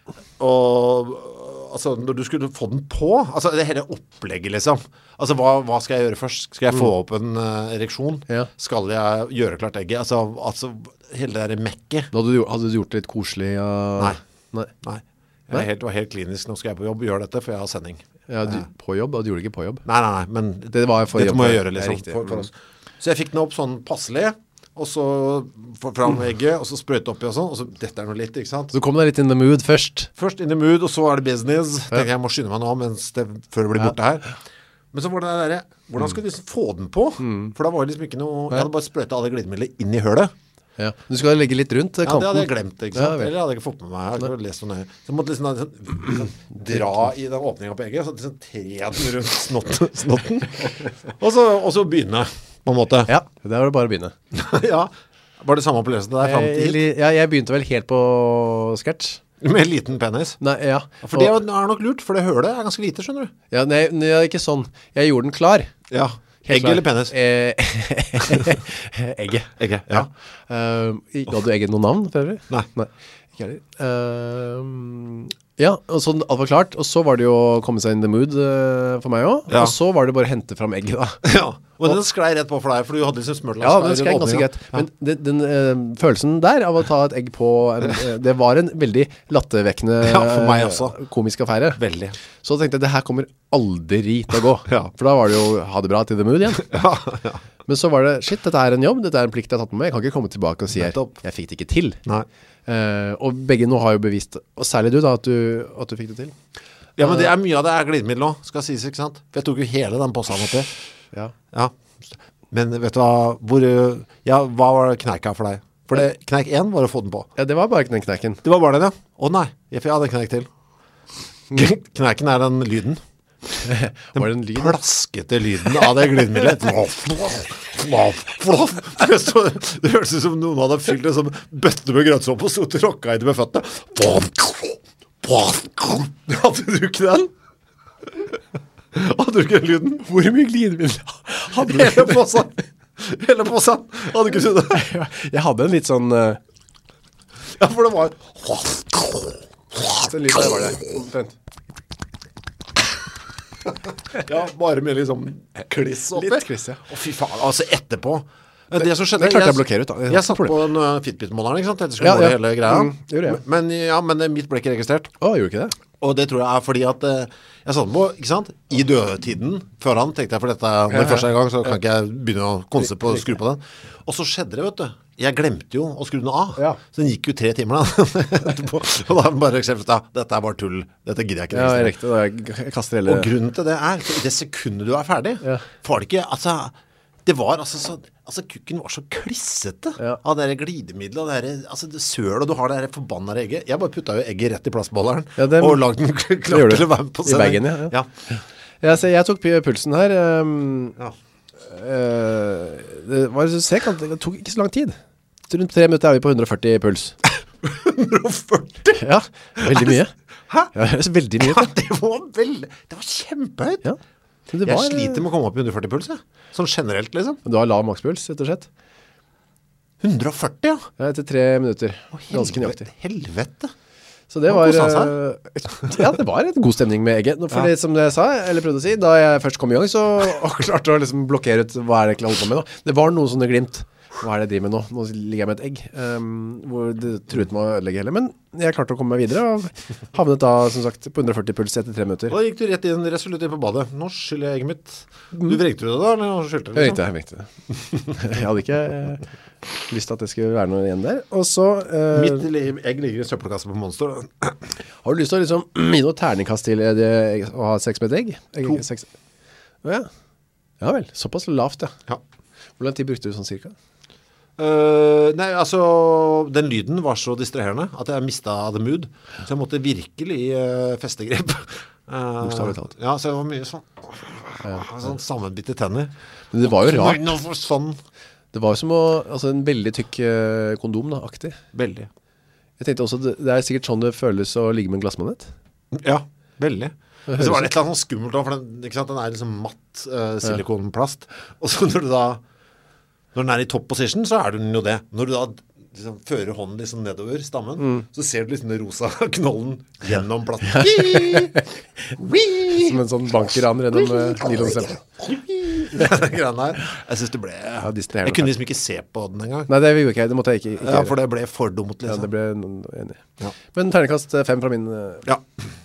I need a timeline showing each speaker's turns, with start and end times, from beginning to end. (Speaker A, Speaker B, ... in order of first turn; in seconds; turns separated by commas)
Speaker A: 0.4-12.1, Speaker B: 12.1-14.7, Speaker A: 14.8-18.6, Speaker B: 18.3-19.8, Speaker A: 19.9-28.7, Speaker B: 20.7-22.5, Speaker B: 28.7-30.1, Speaker A: 30.2-34.3, Speaker A: 34.9-40.3, Speaker B: 37.2-37.5, Speaker B: 40.8-43.3, Speaker A: 42.0-53.1, Speaker B: 53.1-54.1, Speaker A: 54.3-56.8, Speaker B: 56.2-59.2, Speaker A: 59.4-60.4, Speaker B: 60.4-61.4, Speaker A: 61.0-63.3, Speaker B: 63.5-65.7, Speaker A: 65.9-67.1, Speaker B: 66.5-81.2, Speaker A: 68.2-68.6, Speaker A: 69.6-70.1, Speaker A: 79.5-79.8, Speaker A: 81.2-84.8, Speaker B: 83.6-91.8, Speaker A: 90.0-91.0, Speaker A: 91.8-92.2, Speaker B: 92.4-96.8, Speaker A: 96.6-97.4, Speaker B: 97.7-102.0, Speaker A: 100.7-101.1, Speaker B: 102.7-106.3, Speaker A: 107.0-110.7, Speaker A: 112.5-117.3, Speaker B: 117.4-118.4, Speaker A: 118.4-120.5, Speaker A: 121.5-123.0, Speaker B: 123.6-124.8, Speaker A: 124.2-137.3, Speaker A: 138.9-140.1, Speaker B: 140.1-142.3, Speaker A: 141.5-144.9, Speaker B: 144.7-146.4, Speaker A: 147.6-150.6, Speaker B: 149.8-151.3, Speaker A: 153.7-165.1, Speaker B: 156.1-156.8, Speaker B: 158.8-160.6, Speaker B: 162.0-163.4, Speaker B: 165.2-165.7, Speaker A: 166.0-182.0, Speaker B: 170.9-171.3, Speaker B: 181.5-183.3, Speaker A: 183.1-186.7, Speaker A: 187.2-198.1, Speaker B: 195.4-195.8, Speaker B: 196.5-201.0, Speaker B: 201.6-205.0, Speaker B: 205.5-207.2, Speaker A: 207.6-209.0, Speaker B: 208.9-210.1, Speaker A: 209.6-210.0, Speaker B: 210.7-211.7, Speaker A: 211.4-213.8, Speaker B: 214.5-215.2, Speaker A: 214.6-217.4, Speaker B: 217.4-218.7, Speaker A: 220.0-220.9, Speaker B: 221.0-222.9, Speaker A: 222.1-223.7, Speaker B: 224.3-242.4, Speaker A: 224.5-225.2, Speaker A: 242.3-247.0, Speaker B: 246.8-249.2, Speaker B: 249.9-252.5, Speaker A: 252.1-254.6, Speaker B: 255.0-259.1, Speaker B: 259.8-260.1, Speaker B: 260.8-262.0, Speaker B: 262.8-263.7, Speaker A: 264.6-278.0, Speaker B: 272.4-272.9, Speaker B: 276.5-277.3, Speaker B: 278.5-281.6, Speaker A: 281.7-282.1, Speaker B: 282.8-285.5, Speaker A: 285.9-292.4, Speaker B: 287.3-287.7, Speaker A: 293.3-303.0, Speaker B: 300.7-301.7, Speaker B: 302.7-305.0, Speaker A: 304.0-309.7, Speaker B: 307.8-308.5, Speaker B: 309.7-311.2, Speaker A: 310.8-312.3, Speaker B: 312.1-315.3